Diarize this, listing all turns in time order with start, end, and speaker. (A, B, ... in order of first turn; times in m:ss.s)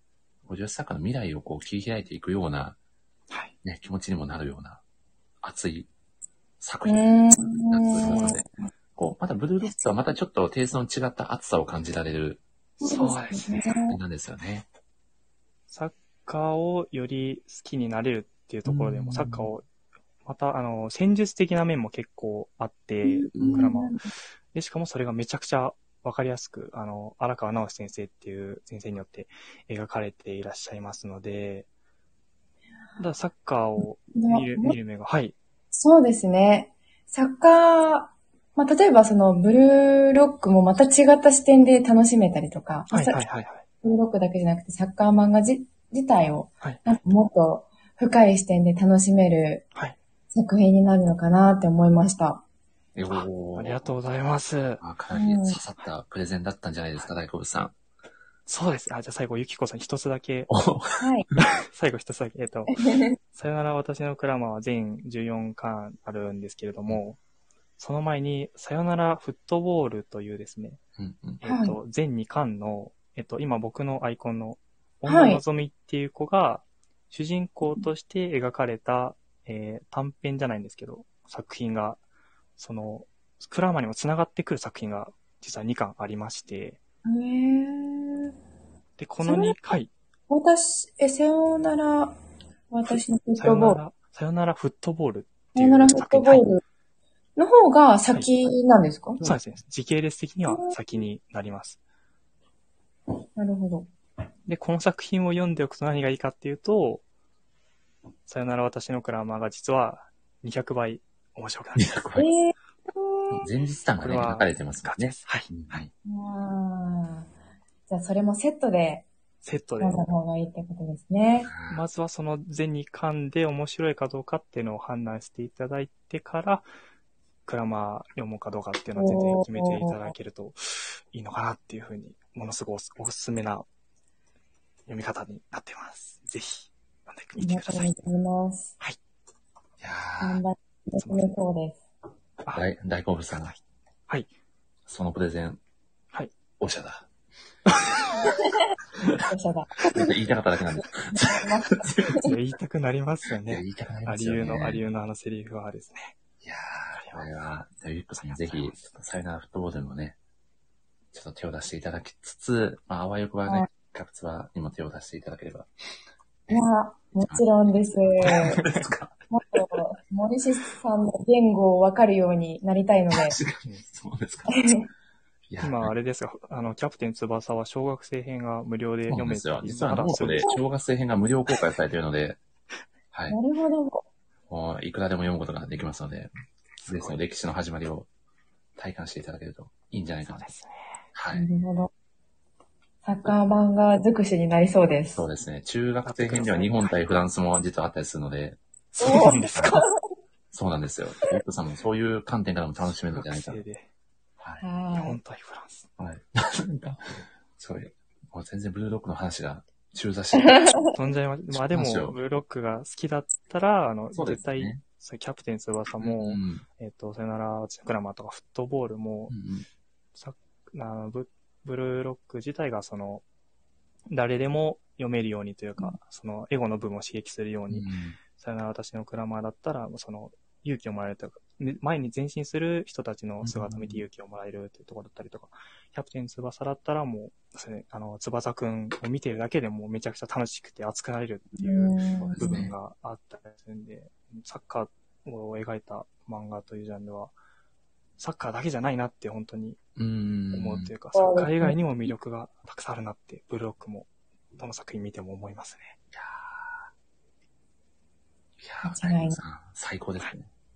0:00.4-0:02.8 A
0:03.6-0:04.8 A
0:05.4-0:05.9 A
0:06.6-0:12.4 A
0:06.8-0:08.4 B
0:12.8-0:14.0 B
0:12.8-0:13.6 C
0:13.9-0:14.7 A
0:15.7-0:19.6 C
0:18.6-0:19.5 A
0:20.2-0:31.7 C
0:23.0-0:24.1 B
0:23.3-0:23.6 A
0:33.0-0:35.3 C
0:34.1-0:34.8 B
0:35.7-0:43.2 B
0:42.9-0:43.6 C
0:43.8-0:49.7 B
0:50.3-0:52.4 B
0:52.9-0:53.9 A
0:53.1-0:54.8 C
0:54.8-0:57.7 A
0:55.1-0:55.6 B
0:58.5-1:00.5 C
1:00.5-1:01.4 A
1:01.0-1:01.3 B
1:01.6-1:02.8 C
1:02.8-1:03.1 B
1:03.3-1:07.2 C
1:07.8-1:10.8 C
1:11.0-1:11.4 A
1:11.4-1:22.0 C
1:11.4-1:11.8 B
1:15.0-1:15.4 B
1:22.6-1:26.8 C
1:27.0-1:28.3 B
1:29.0-1:29.9 C
1:29.2-1:29.6 B
1:30.3-1:33.8 B
1:33.4-1:36.4 C
1:35.5-1:36.6 B
1:37.4-1:39.2 B
1:39.2-1:41.8 C
1:40.5-1:40.7 B
1:43.3-1:43.9 B
1:44.5-1:47.0 C
1:48.2-1:51.9 C
1:51.8-1:52.3 A
1:52.2-1:53.5 B
1:53.3-1:55.9 A
1:54.0-1:55.6 C
1:56.0-1:57.3 B
1:57.9-1:59.1 B
1:59.4-2:00.0 C
1:59.8-2:01.5 B
2:01.4-2:01.8 A
2:01.7-2:06.7 C
2:07.4-2:13.6 C
2:09.0-2:10.1 B
2:14.9-2:17.9 C
2:17.4-2:18.7 B
2:19.8-2:20.4 A
2:20.2-2:21.8 B
2:21.0-2:21.2 C
2:22.5-2:23.5 A
2:23.4-2:24.3 C
2:24.9-2:25.6 A
2:26.6-2:27.1 A
2:27.7-2:28.0 C
2:29.2-2:30.1 B
2:29.9-2:32.2 A
2:31.1-2:32.3 B
2:32.2-2:36.1 C
2:33.5-2:34.8 A
2:36.4-2:40.2 A
2:37.0-2:37.2 C
2:38.2-2:38.8 C
2:41.1-2:45.7 A
2:46.5-2:48.6 B
2:47.2-2:49.1 A
2:48.2-2:48.8 C
2:49.3-2:53.4 B
2:53.1-2:54.8 A
2:54.5-2:54.8 B
2:55.5-2:55.9 A
2:55.6-3:00.5 C
2:59.1-3:02.4 A
3:03.1-3:03.4 A
3:03.3-3:04.0 B
3:04.5-3:06.3 A
3:06.8-3:07.1 C
3:06.8-3:08.1 A
3:08.8-3:10.5 A
3:10.2-3:11.0 C
3:11.1-3:11.5 A
3:11.3-3:11.9 B
3:13.0-3:15.2 B
3:15.1-3:18.6 A
3:16.0-3:17.0 C
3:18.9-3:19.8 C
3:19.0-3:19.8 B
3:19.5-3:19.8 A
3:20.5-3:23.6 A
3:23.1-3:23.9 C
3:24.6-3:25.2 B
3:25.0-3:25.9 C
3:26.0-3:30.8 A
3:30.5-3:30.9 B
3:30.9-3:39.3 C
3:31.5-3:32.2 A
3:34.1-3:34.8 A
3:36.0-3:36.6 A
3:39.3-3:39.7 A
3:40.1-3:43.2 C
3:44.1-4:07.3 C
3:47.7-3:48.2 A
3:53.4-3:54.0 A
4:01.6-4:02.6 B
4:02.1-4:02.7 A
4:08.2-4:09.8 C
4:10.0-4:10.9 A
4:10.5-4:14.1 C
4:11.1-4:11.7 B
4:14.6-4:16.0 C
4:16.1-4:16.9 A
4:18.6-4:20.5 A
4:18.8-4:19.4 B